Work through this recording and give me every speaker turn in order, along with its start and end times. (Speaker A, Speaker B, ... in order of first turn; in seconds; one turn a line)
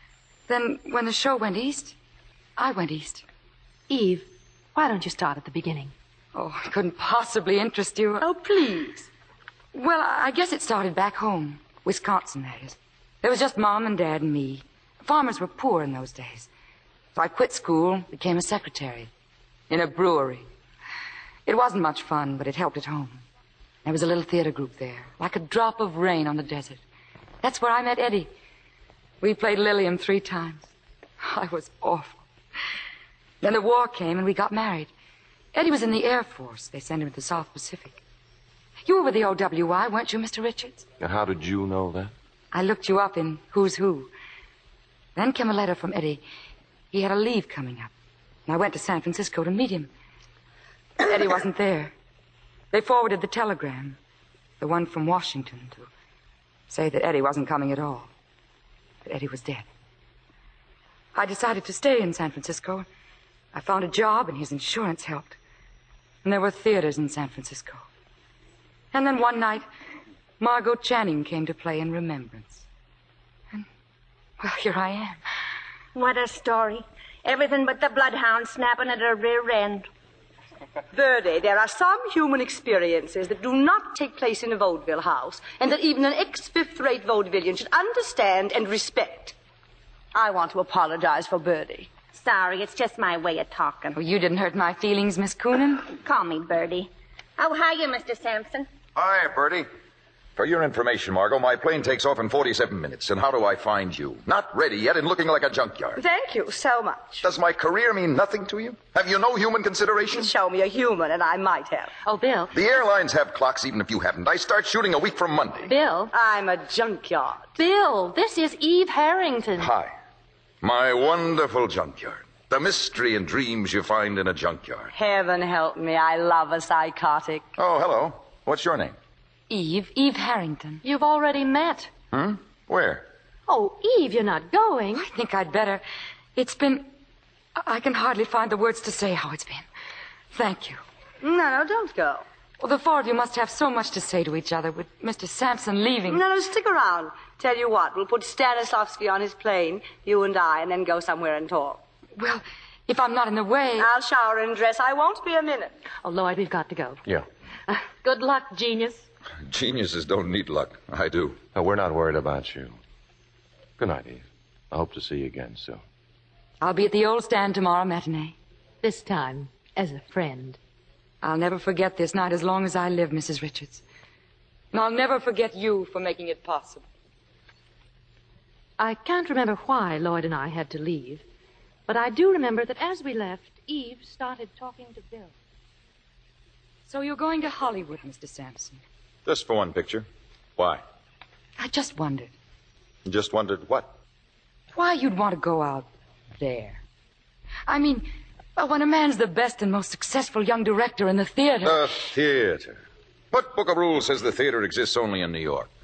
Speaker A: 0.5-1.9
Speaker A: 2.6-3.2
Speaker B: 3.9-5.9
Speaker A: 6.3-8.3
Speaker C: 8.2-9.1
Speaker A: 9.7-16.5
Speaker A: 17.1-19.1
Speaker A: 19.7-20.5
Speaker A: 21.4-23.2
Speaker A: 23.9-26.8
Speaker A: 27.4-28.3
Speaker A: 29.2-32.2
Speaker A: 33.4-34.9
Speaker A: 35.5-38.0
Speaker A: 38.8-40.9
Speaker D: 41.0-42.1
Speaker A: 42.5-44.1
Speaker A: 45.2-46.2
Speaker A: 46.9-47.9
Speaker A: 48.5-49.9
Speaker A: 51.0-51.9
Speaker A: 52.7-54.0
Speaker A: 54.6-55.9
Speaker A: 56.7-58.1
Speaker A: 59.0-59.6
Speaker A: 61.1-62.9
Speaker A: 63.5-65.4
Speaker A: 66.2-67.8
Speaker A: 68.9-69.7
Speaker A: 70.4-72.7
Speaker A: 74.4-75.2
Speaker E: 76.0-79.9
Speaker C: 80.9-89.3
Speaker C: 90.1-91.9
Speaker E: 92.1-94.0
Speaker A: 93.9-95.9
Speaker E: 95.9-98.7
Speaker F: 99.0-99.7
Speaker F: 100.4-106.0
Speaker C: 106.0-107.2
Speaker F: 107.2-110.3
Speaker C: 110.1-111.9
Speaker B: 112.0-112.5
Speaker F: 112.5-115.7
Speaker B: 115.7-116.1
Speaker C: 116.1-117.5
Speaker B: 117.6-119.7
Speaker F: 119.6-119.9
Speaker F: 120.6-124.9
Speaker C: 124.9-127.5
Speaker F: 127.6-128.9
Speaker A: 129.5-130.8
Speaker B: 130.8-131.9
Speaker F: 132.1-133.1
Speaker B: 133.5-135.1
Speaker A: 134.9-135.8
Speaker A: 136.4-136.9
Speaker A: 137.6-139.7
Speaker A: 140.3-140.8
Speaker C: 141.2-142.2
Speaker A: 142.6-146.2
Speaker C: 146.1-151.8
Speaker A: 152.2-153.9
Speaker C: 153.8-155.7
Speaker B: 156.0-157.0
Speaker B: 157.7-159.1
Speaker F: 159.4-161.4
Speaker D: 161.5-162.8
Speaker D: 163.8-165.8
Speaker A: 166.6-168.3
Speaker B: 168.8-170.6
Speaker A: 171.2-173.8
Speaker A: 174.7-176.8
Speaker B: 178.8-181.2
Speaker B: 181.9-185.4
Speaker A: 186.9-188.8
Speaker F: 189.3-190.1
Speaker F: 190.6-190.8
Speaker A: 191.6-192.3
Speaker F: 193.1-193.9
Speaker A: 194.7-196.8
Speaker A: 197.7-201.9
Speaker F: 201.6-205.7